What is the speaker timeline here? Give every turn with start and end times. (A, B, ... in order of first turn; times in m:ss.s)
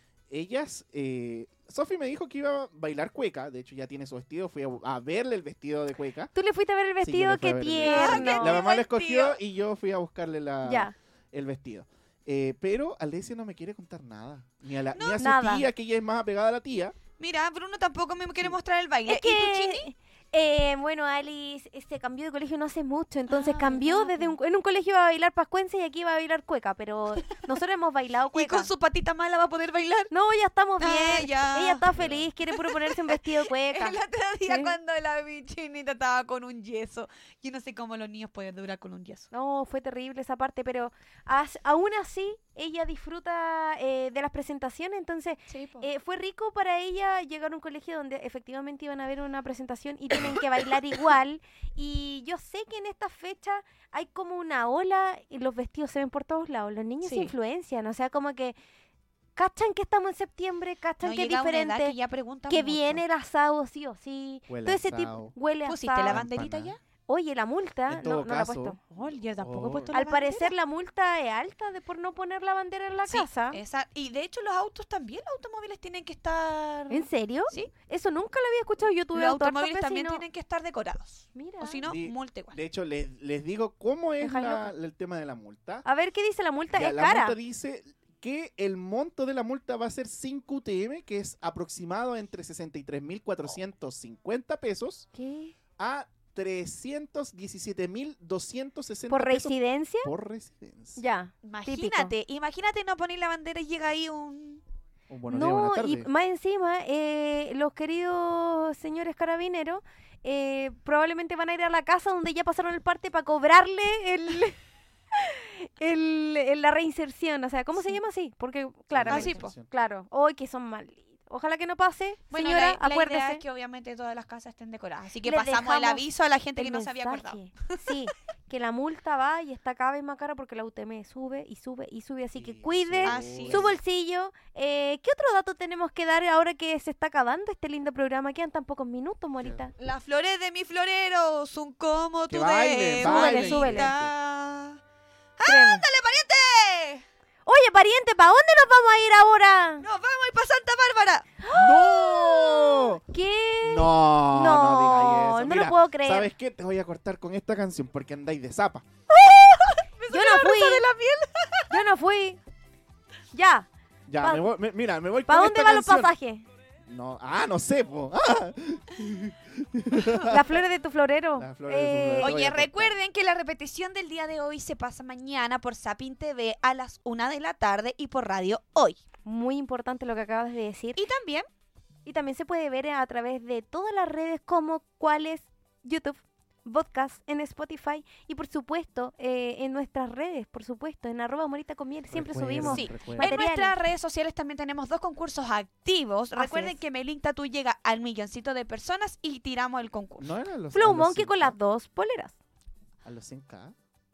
0:00.3-0:06.3 A
0:06.3-0:08.6 B
0:07.0-0:17.0 A
0:07.8-0:09.4 C
0:10.6-0:11.0 B
0:14.9-0:15.2 C
0:15.2-0:15.7 B
0:17.2-0:19.9 C
0:19.1-0:28.7 B
0:23.3-0:24.4 C
0:28.3-0:30.1 C
0:30.1-0:34.8 B
0:30.8-0:31.8 C
0:31.9-0:32.3 A
0:32.5-0:39.3 C
0:39.3-0:58.6 B
0:45.5-0:45.9 C
0:57.0-0:57.3 C
0:59.4-1:02.0 B
1:01.0-1:03.0 C
1:02.5-1:06.2 B
1:04.5-1:05.3 A
1:05.6-1:06.8 C
1:06.1-1:06.8 A
1:07.1-1:08.8 B
1:07.9-1:08.8 A
1:08.9-1:10.5 C
1:09.4-1:09.9 A
1:09.9-1:13.6 B
1:13.1-1:17.7 C
1:16.9-1:20.2 B
1:19.1-1:22.6 C
1:21.4-1:21.9 B
1:21.9-1:25.8 A
1:24.2-1:24.7 B
1:25.8-1:27.4 B
1:26.7-1:35.1 A
1:35.2-1:35.5 B
1:35.8-1:41.0 A
1:39.1-1:40.1 B
1:41.0-1:42.1 B
1:41.4-1:44.6 C
1:45.1-1:46.1 A
1:45.3-1:54.6 B
1:55.1-2:03.4 B
1:58.9-1:59.7 A
1:59.1-1:59.5 C
2:02.3-2:07.9 C
2:05.2-2:06.0 B
2:06.6-2:19.7 B
2:12.4-2:13.8 A
2:13.0-2:13.6 C
2:19.8-2:24.8 C
2:22.3-2:24.1 A
2:23.0-2:23.9 B
2:25.4-2:27.0 C
2:25.4-2:25.8 B
2:27.5-2:29.8 B
2:29.8-2:31.3 C
2:31.4-2:36.3 B
2:31.5-2:33.0 A
2:33.6-2:38.9 A
2:39.1-2:41.7 C
2:40.1-2:40.9 B
2:41.7-2:42.4 B
2:43.3-2:43.7 B
2:44.1-2:46.1 A
2:44.2-2:44.5 B
2:45.3-2:46.5 B
2:46.8-2:50.6 A
2:50.3-2:52.3 B
2:51.4-2:53.0 A
2:52.2-2:59.0 C
2:59.2-3:01.0 B
3:01.0-3:01.5 C
3:02.1-3:13.8 B
3:12.1-3:13.3 A
3:12.6-3:20.3 C
3:16.4-3:16.8 B
3:20.2-3:21.6 A
3:20.7-3:22.4 B
3:23.0-3:23.8 A